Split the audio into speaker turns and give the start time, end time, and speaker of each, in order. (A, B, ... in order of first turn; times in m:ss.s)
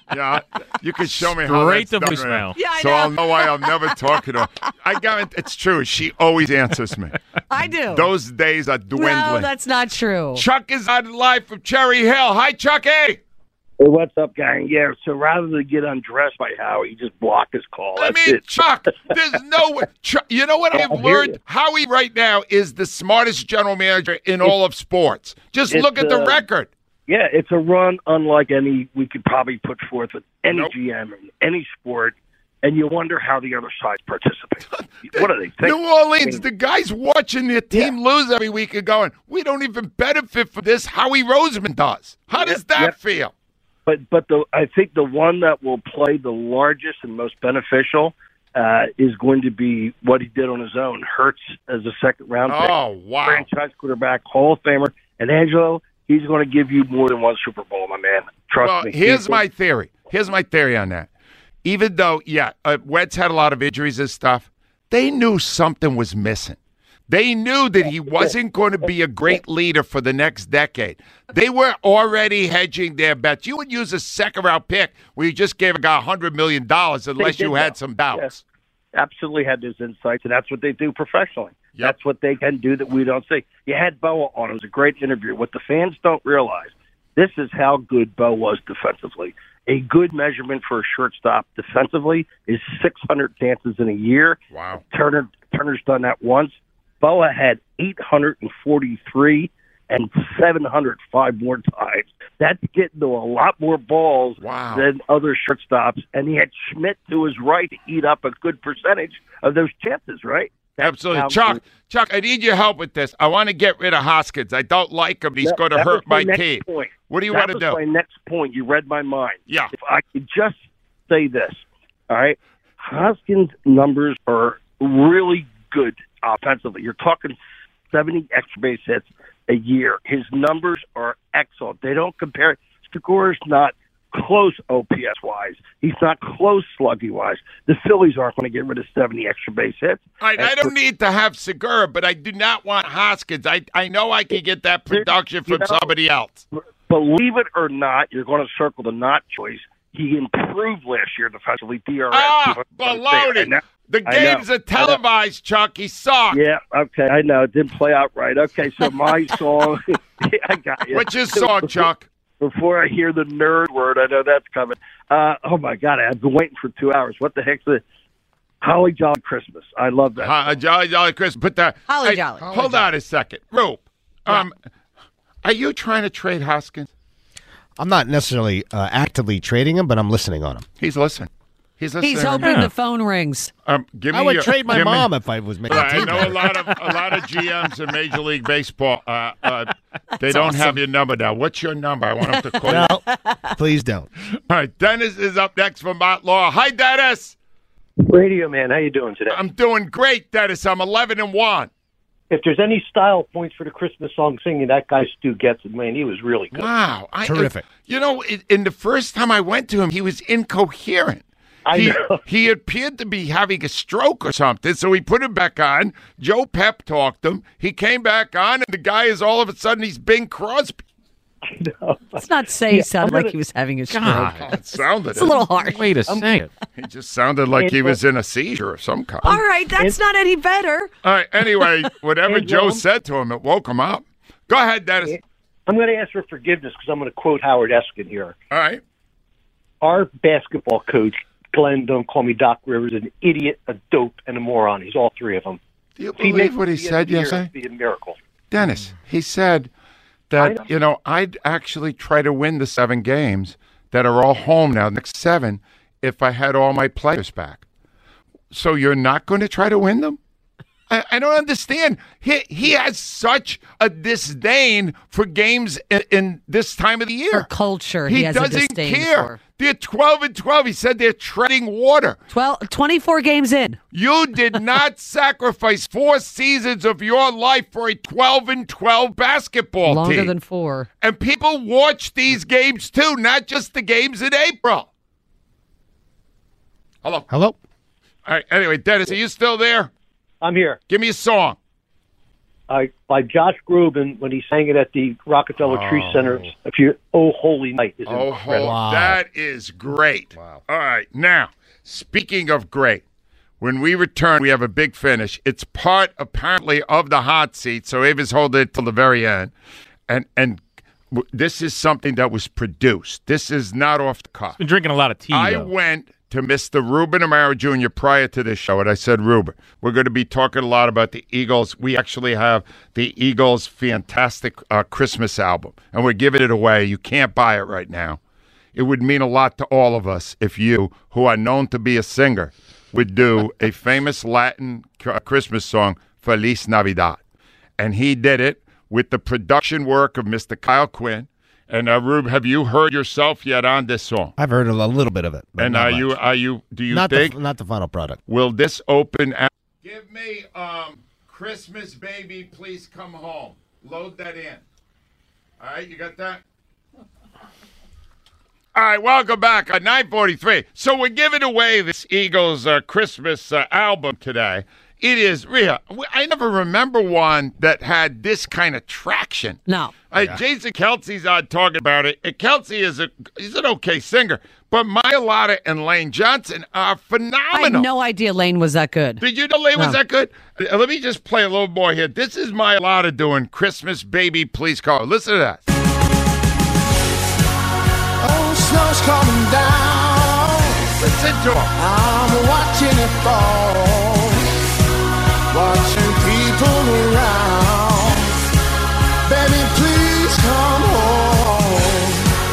0:00.1-0:07.2 A
0:01.2-0:02.6 B
0:02.6-0:04.4 C
0:07.5-0:08.1 C
0:07.9-0:09.5 A
0:08.9-0:10.4 C
0:10.4-0:13.2 A
0:13.8-0:18.9 D
0:18.0-0:26.7 A
0:20.7-0:21.4 D
0:25.7-0:26.4 D
0:27.1-0:36.4 D
0:35.0-0:43.3 A
0:42.3-0:43.0 D
0:43.9-0:59.4 D
0:52.5-0:53.5 A
0:58.6-1:01.1 A
1:01.6-1:06.6 A
1:07.1-1:18.4 A
1:07.8-1:08.3 D
1:17.2-1:18.3 D
1:18.9-1:34.4 D
1:34.5-1:34.8 A
1:34.9-1:51.6 D
1:44.4-1:44.9 A
1:50.8-1:57.8 A
1:55.4-2:07.4 D
2:07.9-2:20.7 D
2:20.2-2:26.4 A
2:24.9-2:25.9 D
2:26.9-2:35.0 D
2:32.1-2:36.4 A
2:36.3-2:47.8 D
2:40.9-2:42.1 A
2:48.6-2:50.6 D
2:50.2-2:54.5 A
2:51.9-2:52.5 C
2:52.4-2:52.9 E
2:55.4-2:56.9 A
2:57.8-3:00.7 E
3:00.8-3:02.6 A
3:02.0-3:03.5 C
3:02.4-3:02.7 B
3:03.6-3:05.1 A
3:04.1-3:06.5 E
3:05.7-3:12.9 A
3:10.3-3:10.8 E
3:12.5-3:13.4 C
3:12.7-3:13.0 E
3:13.6-3:14.1 E
3:14.5-3:17.4 A
3:18.1-3:19.4 F
3:19.3-3:21.7 A
3:22.3-3:26.6 F
3:26.5-3:40.8 A
3:27.2-3:27.6 E
3:31.7-3:32.1 F
3:42.2-3:44.5 C
3:42.6-3:43.3 F
3:43.9-3:44.5 B
3:44.0-3:45.5 A
3:45.1-3:45.9 C
3:45.6-3:46.5 B
3:46.1-3:46.4 F
3:46.8-3:49.4 A
3:47.6-3:47.9 F
3:49.2-3:50.9 C
3:51.0-3:55.2 A
3:52.3-3:52.8 F
3:55.7-3:58.3 F
3:58.5-3:58.8 A
3:59.8-4:05.6 F
4:06.0-4:07.5 A
4:06.2-4:08.2 F
4:08.5-4:09.7 A
4:10.3-4:17.6 A
4:18.5-4:20.2 A
4:20.9-4:27.5 A
4:27.3-4:29.4 C
4:28.0-4:32.2 A
4:32.3-4:33.8 C
4:33.9-4:40.3 A
4:39.8-4:40.9 C
4:41.0-4:44.9 A
4:47.3-4:47.6 E
4:48.3-4:49.9 A
4:50.4-4:50.8 F
4:50.9-4:51.6 A
4:52.7-4:58.6 F
4:55.6-4:56.5 A
4:58.1-5:03.0 A
4:58.5-4:59.2 E
5:03.6-5:09.5 A
5:10.1-5:10.6 A
5:11.1-5:14.6 A
5:14.6-5:15.7 B
5:15.3-5:28.2 A
5:28.8-5:37.2 A
5:37.8-5:44.3 A
5:44.4-5:46.2 E
5:45.6-5:47.4 A
5:46.9-5:48.2 E
5:48.3-5:54.6 A
5:55.6-5:56.4 A
5:58.8-6:17.9 A
6:09.7-6:09.9 C
6:10.2-6:10.4 E
6:17.5-6:19.2 C
6:19.2-6:25.6 A
6:28.2-6:30.8 G
6:31.0-6:31.7 A
6:31.8-6:34.4 G
6:35.5-6:38.3 G
6:39.3-6:42.2 G